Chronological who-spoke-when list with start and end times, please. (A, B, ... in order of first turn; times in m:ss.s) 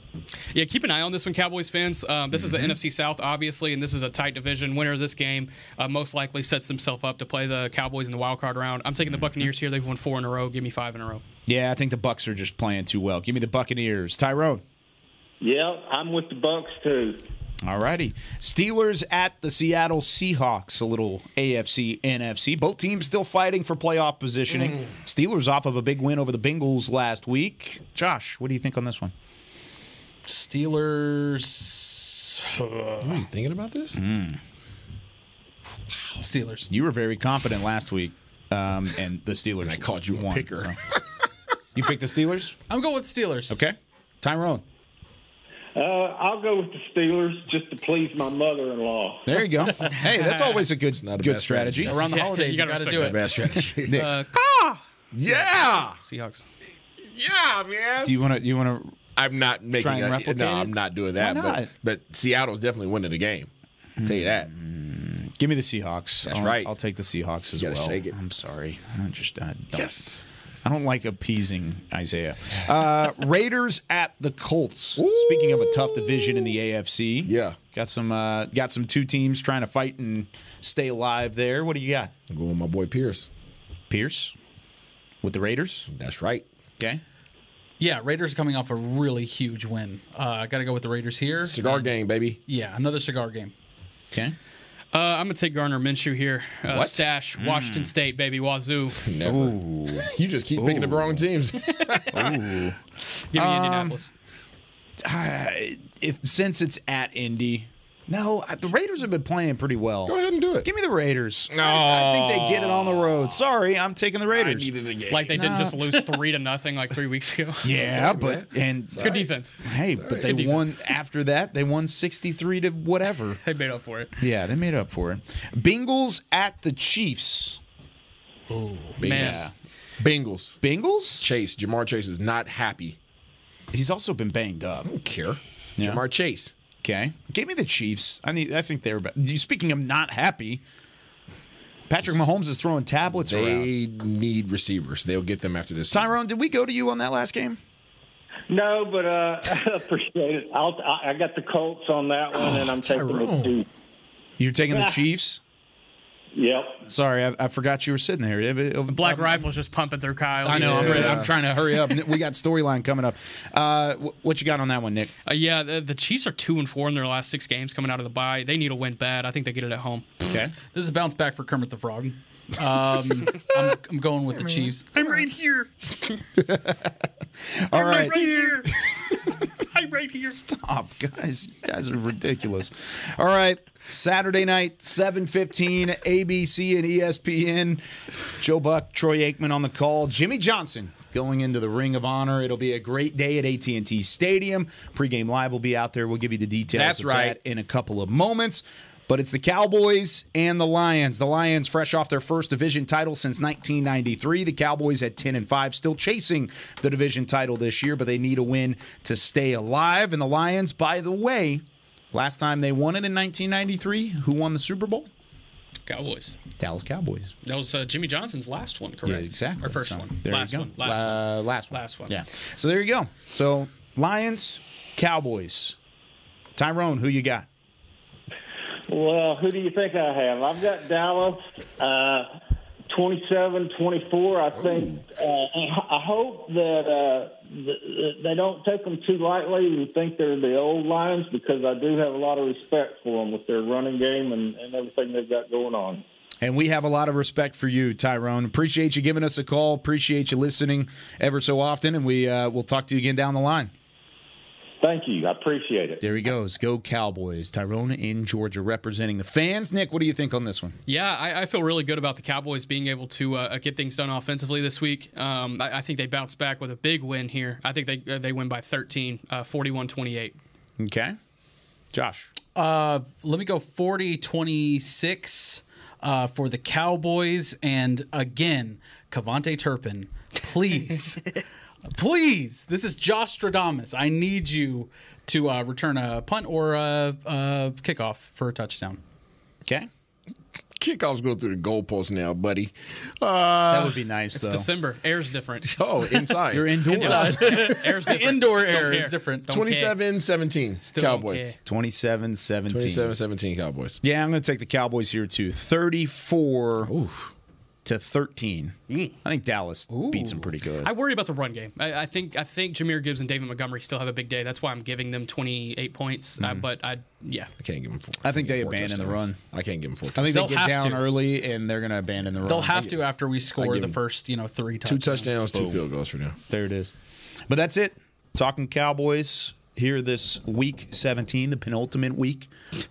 0:00.5-0:11.2 A
0:11.4-0:14.6 B
0:15.4-0:17.2 C
0:17.6-0:29.1 B
0:30.2-0:33.2 D
0:33.0-0:34.0 E
0:33.9-0:34.4 B
0:36.2-0:36.7 D
0:36.7-0:40.8 B
0:39.6-0:40.8 E
0:41.8-0:42.6 B
0:42.7-0:43.6 D
0:43.5-0:44.6 B
0:45.8-0:49.4 C
0:49.2-0:51.9 B
0:51.0-0:52.0 E
0:51.9-0:53.4 D
0:52.0-0:56.4 A
0:52.9-0:54.0 E
0:53.8-0:54.1 B
0:55.1-0:56.0 E
0:57.1-0:58.2 E
0:58.0-0:59.0 B
0:59.1-1:03.5 E
0:59.8-1:01.7 B
1:04.0-1:10.0 B
1:04.0-1:04.5 E
1:06.2-1:06.7 E
1:07.6-1:08.1 E
1:09.7-1:10.2 E
1:10.6-1:22.1 B
1:15.0-1:16.5 E
1:17.2-1:17.6 E
1:22.3-1:23.3 E
1:23.9-1:24.3 B
1:25.2-1:25.9 B
1:25.9-1:26.4 E
1:27.8-1:31.9 D
1:31.4-1:32.4 E
1:32.5-1:33.5 D
1:34.9-1:39.0 A
1:36.8-1:37.9 B
1:39.0-1:42.7 E
1:39.2-1:41.2 B
1:42.1-1:42.7 B
1:43.3-1:44.1 A
1:43.3-1:44.0 B
1:45.0-1:54.7 B
1:50.1-1:50.7 E
1:51.5-1:53.3 E
1:54.3-1:55.6 E
1:55.1-1:57.7 A
1:55.3-1:55.8 B
1:57.6-1:59.1 B
1:57.8-1:59.3 E
1:59.0-1:59.5 A
1:59.6-2:03.4 B
2:00.0-2:00.3 E
2:00.1-2:00.8 A
2:03.4-2:04.1 A
2:04.2-2:07.6 B
2:08.5-2:09.0 D
2:09.0-2:09.5 E
2:09.0-2:09.5 B
2:09.0-2:09.5 A
2:10.0-2:10.6 E
2:10.6-2:11.2 B
2:11.2-2:13.0 E
2:13.7-2:14.9 B
2:14.8-2:16.5 E
2:16.8-2:20.6 B
2:21.9-2:23.7 B
2:23.2-2:26.1 E
2:25.9-2:27.6 B
2:28.5-2:33.6 C
2:32.3-2:33.6 E
2:34.4-2:35.4 B
2:36.3-2:36.8 C
2:36.9-2:39.4 B
2:38.9-2:41.2 A
2:40.4-2:45.1 B
2:40.5-2:41.3 E
2:45.2-2:50.1 A
2:50.2-2:50.5 B
2:50.7-2:56.1 D
2:56.4-2:56.9 B
2:57.5-2:58.7 B
2:57.7-2:59.2 D
2:59.7-3:00.5 D
3:00.5-3:07.8 B
3:08.4-3:35.1 B
3:16.7-3:17.4 E
3:35.9-3:36.3 A
3:36.6-3:37.3 B
3:37.4-3:42.2 A
3:39.0-3:45.8 B
3:46.6-3:47.5 B
3:48.9-3:52.3 C
3:52.9-4:06.0 C
4:06.4-4:13.7 B
4:14.8-4:16.0 C
4:16.0-4:20.8 B
4:20.9-4:30.4 A
4:30.8-4:31.2 B
4:31.9-4:32.3 B
4:32.5-4:41.4 D
4:41.9-4:49.0 D
4:50.8-4:54.0 E
4:53.7-4:54.7 B
4:54.3-4:55.8 A
4:55.6-4:56.8 E
4:56.5-4:57.7 B
4:56.9-5:00.0 A
4:56.9-4:59.5 D
4:59.5-5:01.5 E
5:00.8-5:01.5 A
5:01.6-5:03.1 B
5:02.7-5:04.0 E
5:04.0-5:06.9 B
5:06.8-5:07.3 E
5:07.8-5:10.9 B
5:08.9-5:09.1 A
5:09.9-5:10.4 D
5:10.8-5:17.5 A
5:17.6-5:20.3 E
5:18.2-5:19.4 B
5:20.1-5:22.9 B
5:20.3-5:21.1 D
5:22.4-5:25.3 D
5:23.6-5:23.9 E
5:24.8-5:26.4 E
5:25.5-5:25.8 B
5:26.5-5:26.9 B
5:27.5-5:32.5 B